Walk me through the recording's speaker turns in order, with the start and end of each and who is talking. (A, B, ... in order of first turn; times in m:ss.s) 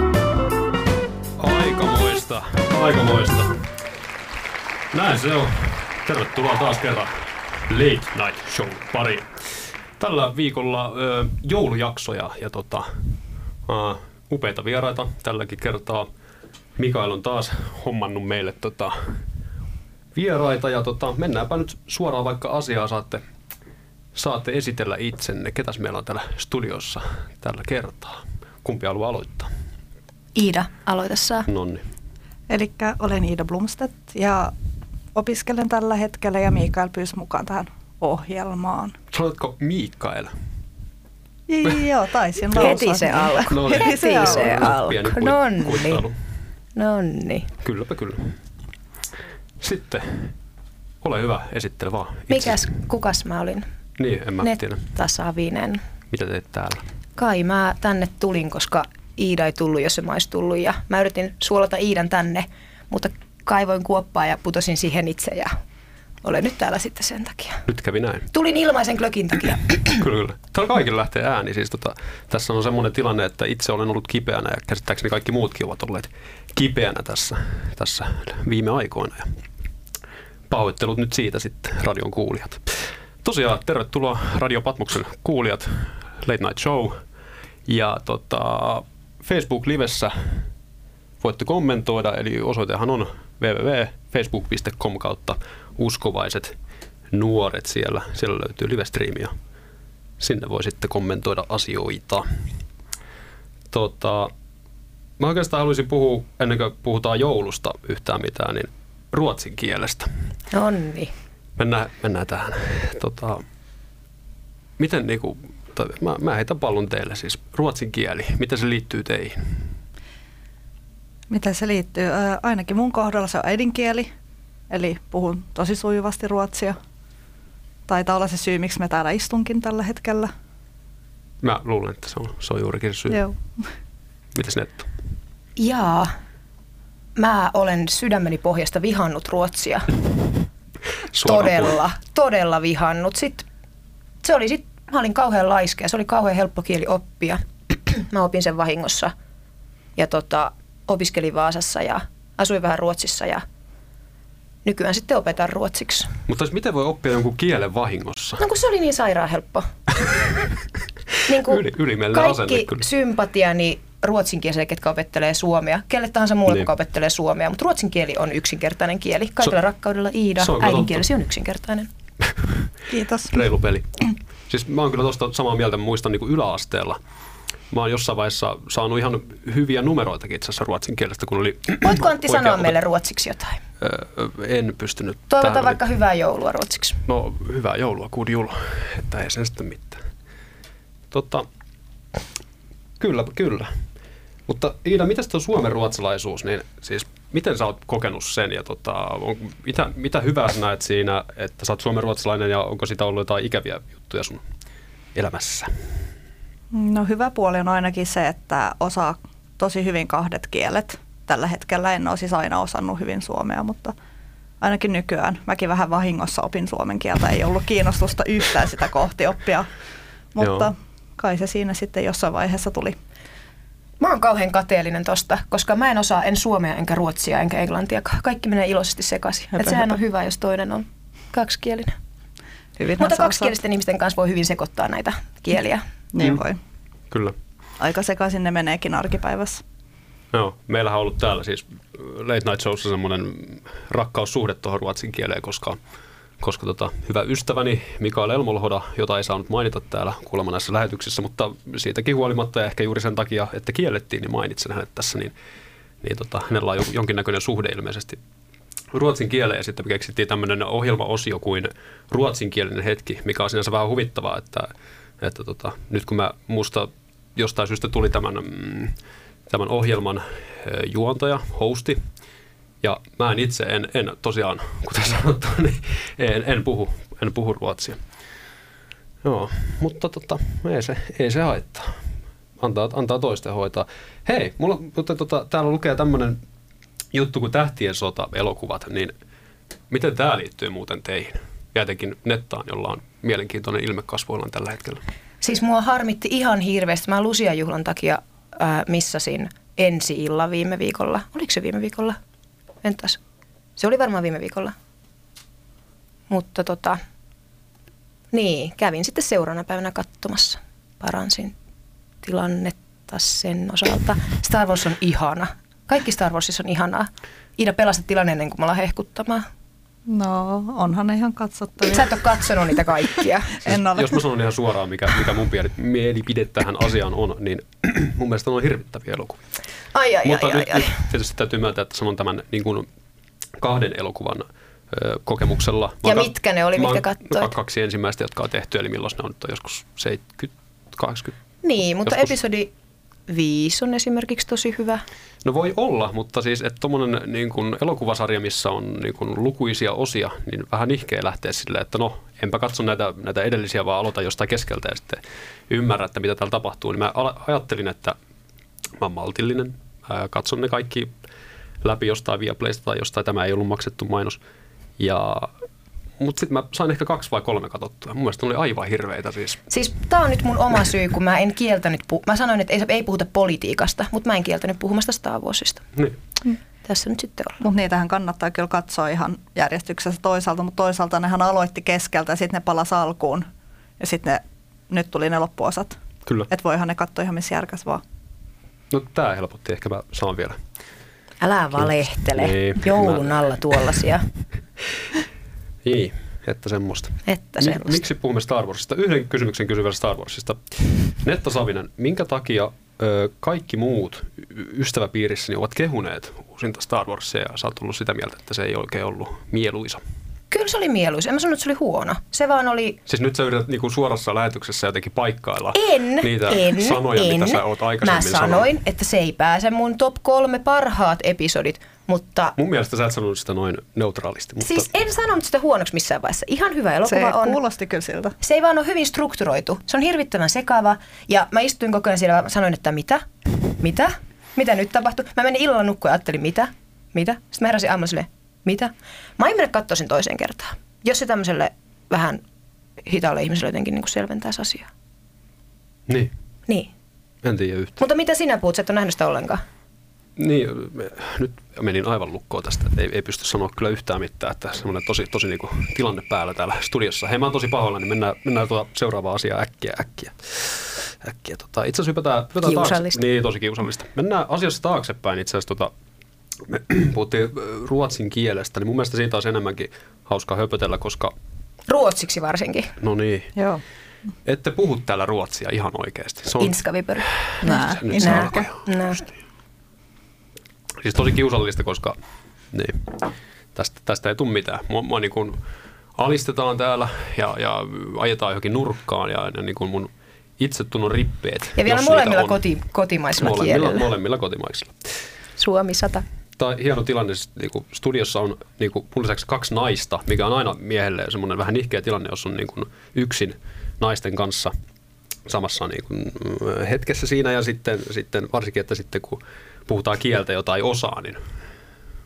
0:01.4-0:03.6 A
0:04.9-0:07.1 A
0:07.7-0:09.3 A
0:10.0-0:13.0 A
0:13.6-0:16.1 A
0:16.8-0:19.2 A
0:20.1-0:23.2 A
0:24.1-0:29.5 A
0:30.4-0:31.5 B
0:31.5-0:31.8 A
0:32.5-0:34.5 C
0:35.1-0:38.9 C
0:39.1-0:40.3 A
0:41.5-0:44.6 C
0:42.5-0:46.0 B
0:43.4-0:46.2 A
0:46.8-0:47.5 B
0:47.6-0:48.4 A
0:49.6-0:50.3 A
0:51.0-0:52.7 A
0:52.3-0:53.6 B
0:54.0-0:54.9 A
0:54.4-0:55.8 B
0:56.1-0:56.8 A
0:57.2-1:05.5 B
1:06.2-1:07.6 B
1:07.6-1:08.3 A
1:08.3-1:10.0 B
1:09.9-1:19.4 A
1:20.5-1:22.6 A
1:23.2-1:27.0 A
1:27.6-1:30.5 A
1:31.2-1:36.6 A
1:37.1-1:39.3 A
1:40.2-1:42.5 A
1:43.7-1:44.3 A
1:45.2-1:50.1 A
1:50.5-1:51.1 B
1:51.6-1:53.4 A
1:54.8-1:59.6 A
2:01.3-2:04.1 C
2:04.7-2:06.8 C
2:07.9-2:10.3 C
2:11.4-2:13.2 A
2:13.1-2:13.7 C
2:14.3-2:14.9 A
2:15.6-2:16.1 B
2:17.2-2:19.9 B
2:21.1-2:21.8 A
2:21.2-2:23.4 B
2:24.2-2:29.1 B
2:30.0-2:33.4 B
2:34.6-2:36.1 B
2:36.3-2:38.4 A
2:38.4-2:39.7 B
2:41.2-2:51.9 B
2:41.3-2:42.8 A
2:50.4-2:51.0 A
2:52.2-2:52.7 A
2:52.9-2:53.5 C
2:53.3-2:57.0 A
2:57.7-3:02.7 A
3:01.8-3:03.6 B
3:03.8-3:05.8 A
3:05.3-3:07.0 B
3:07.1-3:10.0 A
3:11.1-3:11.4 A
3:13.0-3:13.7 A
3:14.5-3:24.4 A
3:25.1-3:25.7 A
3:26.7-3:33.9 C
3:34.6-3:39.7 C
3:40.3-3:43.0 C
3:40.4-3:40.7 A
3:44.0-3:51.9 B
3:49.6-3:49.8 C
3:52.8-3:53.5 C
3:53.0-3:55.8 B
3:56.1-3:56.6 C
3:57.1-3:57.4 A
3:57.8-3:59.6 C
4:00.3-4:05.8 A
4:06.4-4:15.3 A
4:16.0-4:18.2 A
4:18.9-4:28.9 A
4:29.5-4:32.0 A
4:32.8-4:38.0 A
4:39.2-4:42.0 A
4:42.6-4:46.4 A
4:47.1-4:49.1 A
4:49.9-4:55.0 A
4:55.4-5:02.2 B
5:02.8-5:03.2 B
5:03.8-5:04.7 B
5:06.3-5:07.0 B
5:08.3-5:11.5 B
5:12.2-5:19.4 B
5:20.1-5:22.2 C
5:21.8-5:23.6 B
5:23.6-5:24.2 C
5:23.6-5:29.4 A
5:29.9-5:31.0 B
5:30.2-5:32.9 A
5:33.6-5:41.4 A
5:36.0-5:37.5 B
5:41.6-5:42.7 B
5:42.0-5:42.4 A
5:43.3-5:45.0 B
5:45.4-5:58.2 A
5:59.0-6:01.1 A
6:01.8-6:04.4 A
6:05.0-6:05.5 A
6:06.2-6:09.6 A
6:09.7-6:15.8 B
6:16.8-6:17.6 B
6:17.6-6:23.5 C
6:24.0-6:26.0 C
6:26.5-6:28.0 C
6:28.9-6:30.6 A
6:31.4-6:34.2 B
6:31.8-6:33.4 A
6:35.8-6:50.0 A
6:37.2-6:38.0 B
6:50.5-6:53.0 B
6:53.0-6:58.7 A
6:55.7-7:02.5 B
7:02.6-7:04.9 A
7:04.6-7:07.6 B
7:07.1-7:08.4 C
7:08.4-7:13.2 B
7:13.8-7:22.4 B
7:23.0-7:24.9 B
7:27.4-7:28.0 A
7:28.0-7:29.6 B
7:30.4-7:45.9 A
7:42.6-7:43.2 B
7:46.6-7:51.3 A
7:51.9-7:52.9 B
7:53.0-7:53.5 A
7:53.6-7:53.8 C
7:54.4-7:56.8 A
7:56.6-7:59.3 B
7:57.6-7:58.6 C
7:57.7-7:58.8 A
8:01.0-8:02.2 A
8:02.7-8:05.6 A
8:06.1-8:12.6 A
8:11.8-8:14.1 B
8:13.4-8:15.0 A
8:15.6-8:16.2 B
8:16.6-8:24.7 A
8:25.4-8:31.4 A